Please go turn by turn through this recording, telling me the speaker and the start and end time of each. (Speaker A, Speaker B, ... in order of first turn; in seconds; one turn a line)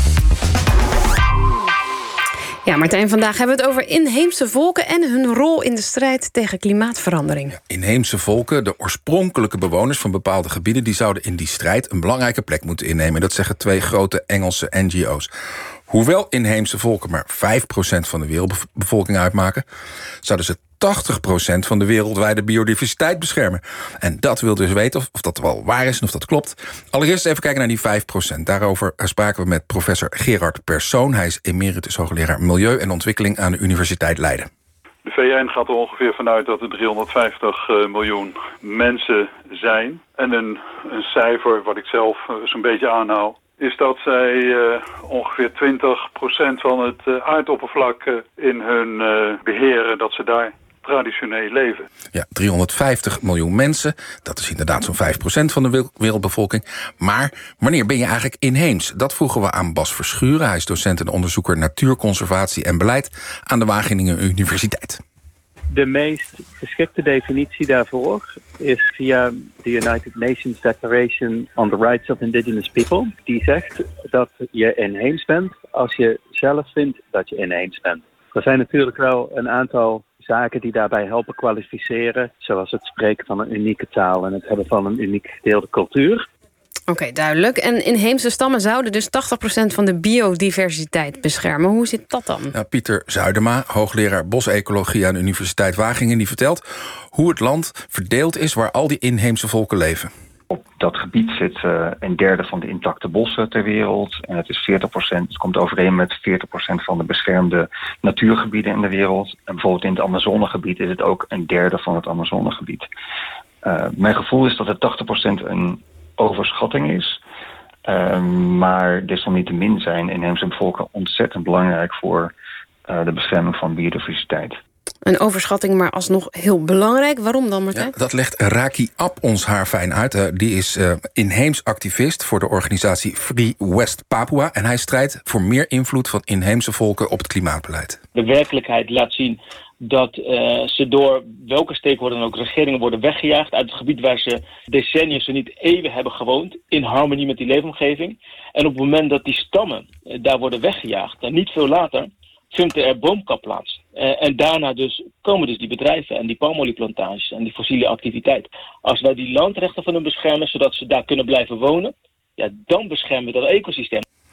Speaker A: 2.6-7.5
Speaker B: 7.5-15.3
Speaker B: 15.9-19.6
Speaker B: 20.2-34.5
Speaker C: 35.0-51.9
Speaker B: 52.1-65.0
Speaker D: 65.7-86.2
Speaker A: 86.9-92.5
Speaker B: 92.5-96.6
Speaker B: 97.1-100.1
Speaker E: 100.5-112.9
Speaker E: 113.6-117.2
Speaker E: 117.8-122.3
Speaker E: 122.9-124.6
Speaker A: 125.0-127.9
Speaker B: 127.7-138.0
Speaker F: 138.1-164.0